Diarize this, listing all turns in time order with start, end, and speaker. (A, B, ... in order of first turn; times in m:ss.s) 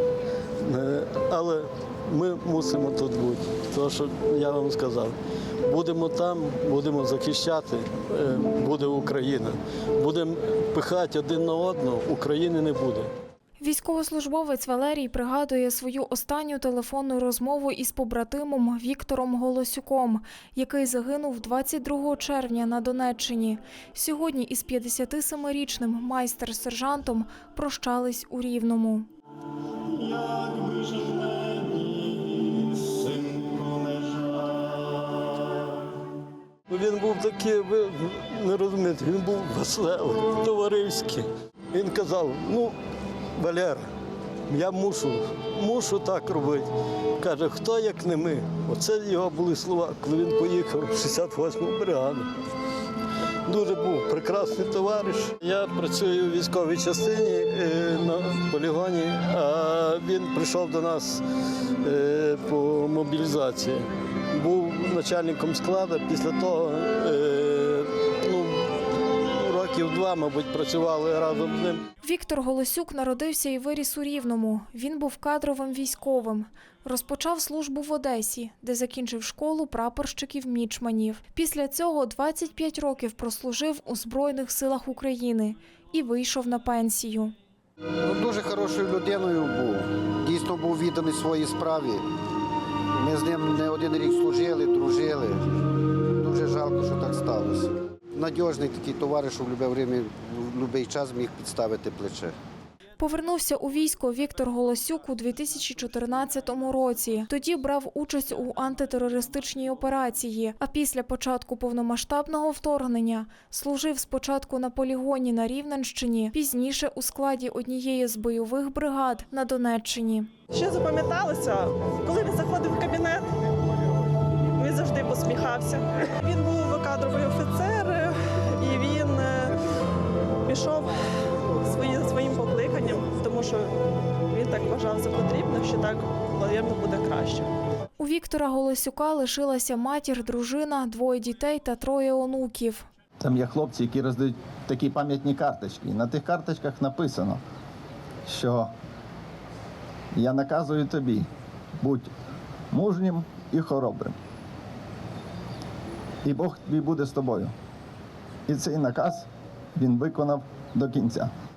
0:00.6-0:13.1 A
0:13.6-0:29.1 B
0:29.8-0:35.8 A
0:36.7-0:42.8 A
0:43.4-0:43.9 A
0:44.5-0:52.3 A
0:53.4-1:11.9 A
1:12.0-1:27.3 B
1:28.0-1:32.0 C
1:32.9-1:42.3 C
1:43.0-2:00.3 B
2:00.5-2:03.3 D
2:04.6-2:09.6 D
2:10.4-2:13.8 D
2:14.3-2:17.5 D
2:18.0-2:22.9 B
2:23.2-2:27.4 E
2:28.2-2:28.7 E
2:30.2-2:31.3 E
2:31.8-2:32.1 E
2:32.7-2:34.2 E
2:36.2-2:37.5 E
2:38.5-2:41.3 E